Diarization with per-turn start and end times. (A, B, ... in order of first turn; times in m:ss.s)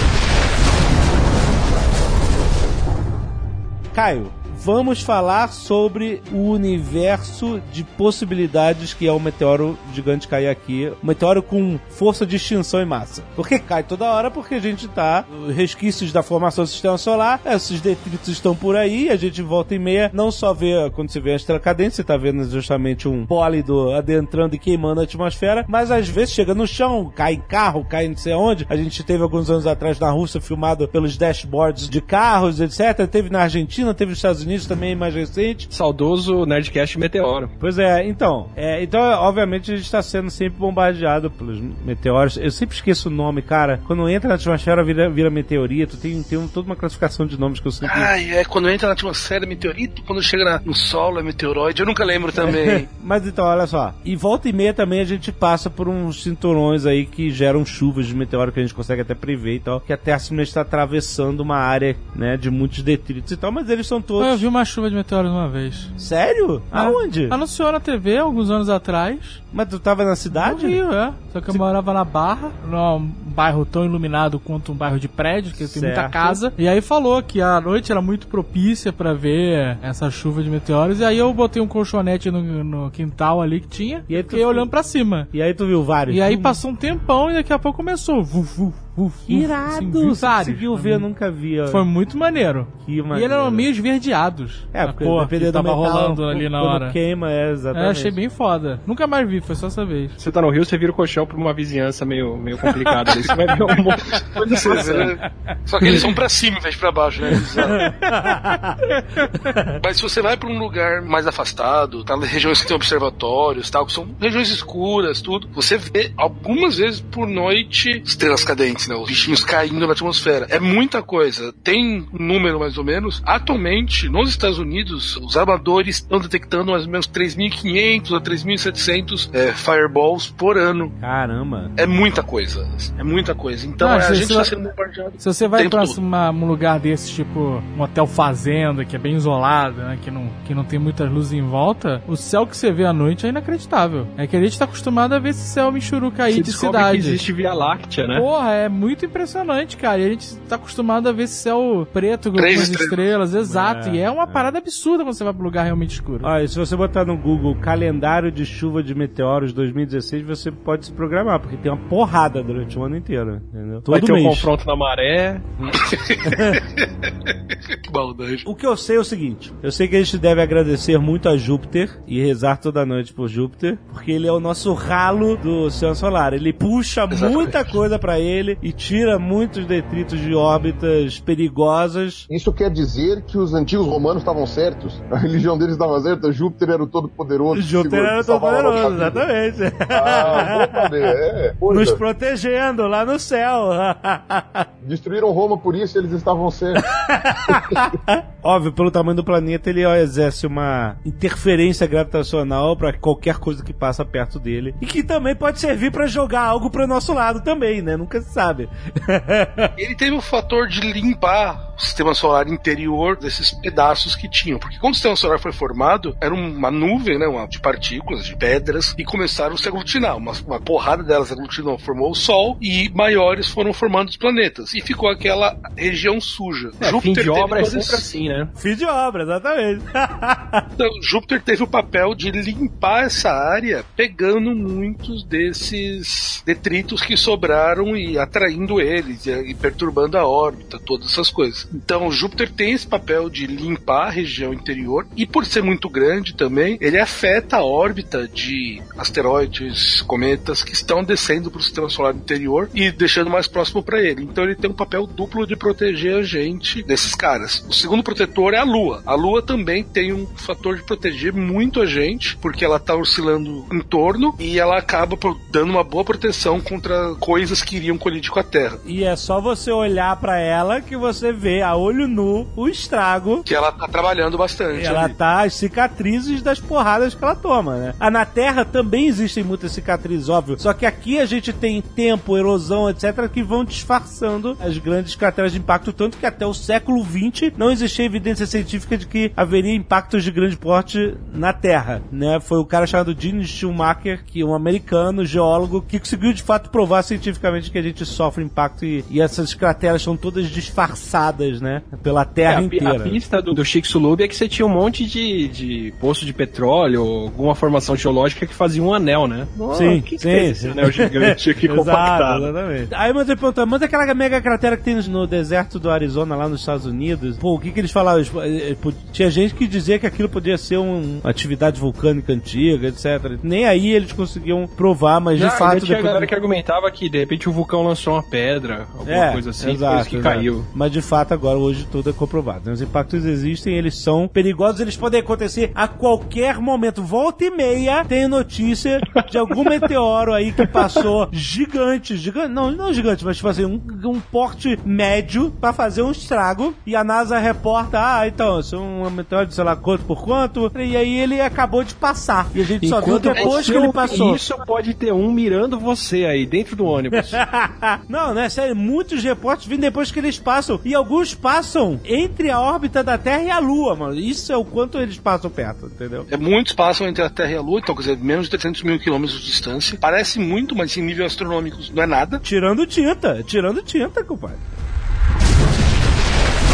0:03.9-0:35.7 A
0:35.7-0:37.5 B
0:37.6-0:48.1 A
0:47.8-0:52.9 C
0:52.4-1:04.4 A
1:04.2-1:05.9 D
1:06.0-1:07.4 A
1:06.7-1:09.4 D
1:09.5-1:10.8 A
1:10.3-1:25.3 D
1:15.6-1:16.4 A
1:24.1-1:26.6 A
1:26.1-1:31.0 D
1:29.3-1:31.9 A
1:31.7-1:37.0 D
1:32.8-1:33.7 A
1:34.7-1:38.2 A
1:37.7-1:40.2 D
1:40.2-1:45.1 B
1:44.2-1:47.9 C
1:44.5-1:46.1 A
1:47.3-1:49.8 A
1:49.7-2:10.9 C
2:11.0-2:11.7 A
2:11.8-2:16.0 C
2:13.8-2:14.5 D
2:15.2-2:27.2 D
2:26.3-2:28.2 B
2:28.1-2:36.3 D
2:32.4-2:33.1 C
2:33.4-2:34.5 A
2:36.2-2:44.5 A
2:43.9-2:46.0 B
2:45.7-2:48.4 C
2:46.3-2:46.6 A
2:48.4-3:02.3 A
2:57.1-2:57.7 C
3:02.3-3:09.2 E
3:07.5-3:11.1 A
3:09.9-3:12.0 E
3:11.7-3:14.7 A
3:14.8-3:16.9 E
3:16.9-3:29.7 A
3:17.5-3:17.8 E
3:29.8-3:48.1 C
3:46.8-3:48.5 B
3:48.6-3:50.6 A
3:50.8-4:28.8 C
4:28.8-4:33.4 A
4:33.4-4:35.1 C
4:34.7-5:03.2 A
5:02.4-5:12.5 B
5:09.7-5:26.3 A
5:25.3-5:30.7 B
5:29.0-5:54.4 A
5:39.2-5:39.8 B
5:52.8-5:57.4 B
5:53.4-5:53.7 C
5:57.1-6:06.3 A
6:06.3-6:12.4 C
6:12.4-6:14.6 A